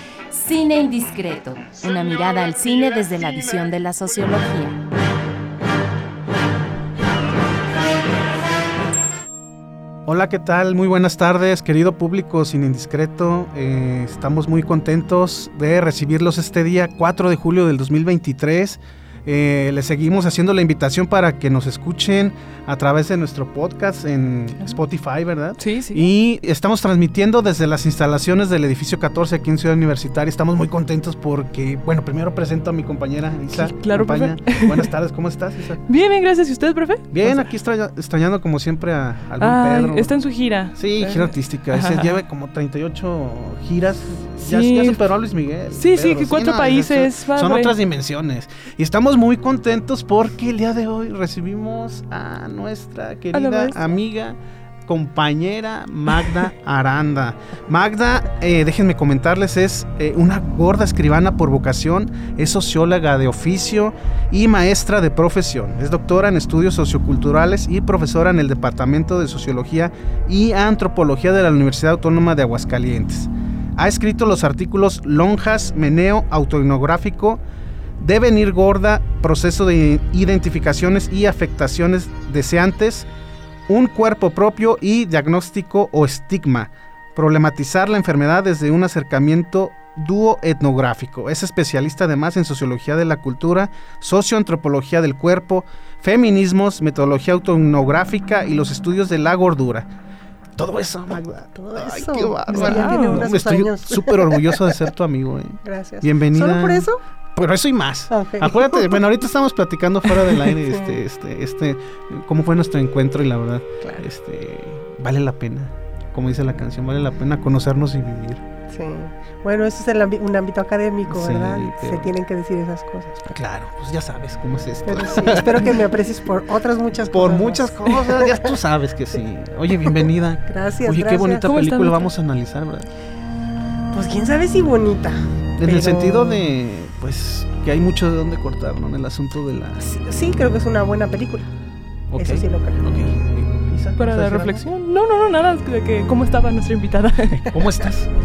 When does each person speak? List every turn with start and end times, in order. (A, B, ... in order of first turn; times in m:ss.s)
0:00.3-0:04.8 A
0:10.0-0:35.8 B
0:25.6-0:26.0 C
0:33.5-0:34.9 C
0:35.9-0:37.5 C
0:37.1-0:40.1 B
0:39.4-0:42.2 C
0:40.7-1:17.4 B
0:44.4-0:45.0 C
0:45.7-0:47.7 C
0:53.3-0:53.8 C
1:18.0-1:23.1 B
1:23.7-1:39.9 B
1:40.6-1:58.4 B
1:41.1-1:44.7 D
1:42.5-1:43.3 C
1:45.6-1:47.0 D
1:48.1-1:49.0 D
1:50.7-1:50.9 D
1:53.8-1:54.0 D
1:58.7-2:03.4 D
2:01.1-2:02.1 B
2:03.3-2:05.8 B
2:04.8-2:08.6 D
2:07.1-2:12.9 B
2:10.4-2:11.5 D
2:11.4-2:12.1 C
2:13.9-2:16.4 D
2:15.6-2:19.8 B
2:19.8-2:21.5 D
2:22.1-2:24.6 B
2:22.2-2:22.9 D
2:24.0-2:27.5 C
2:27.3-2:28.1 B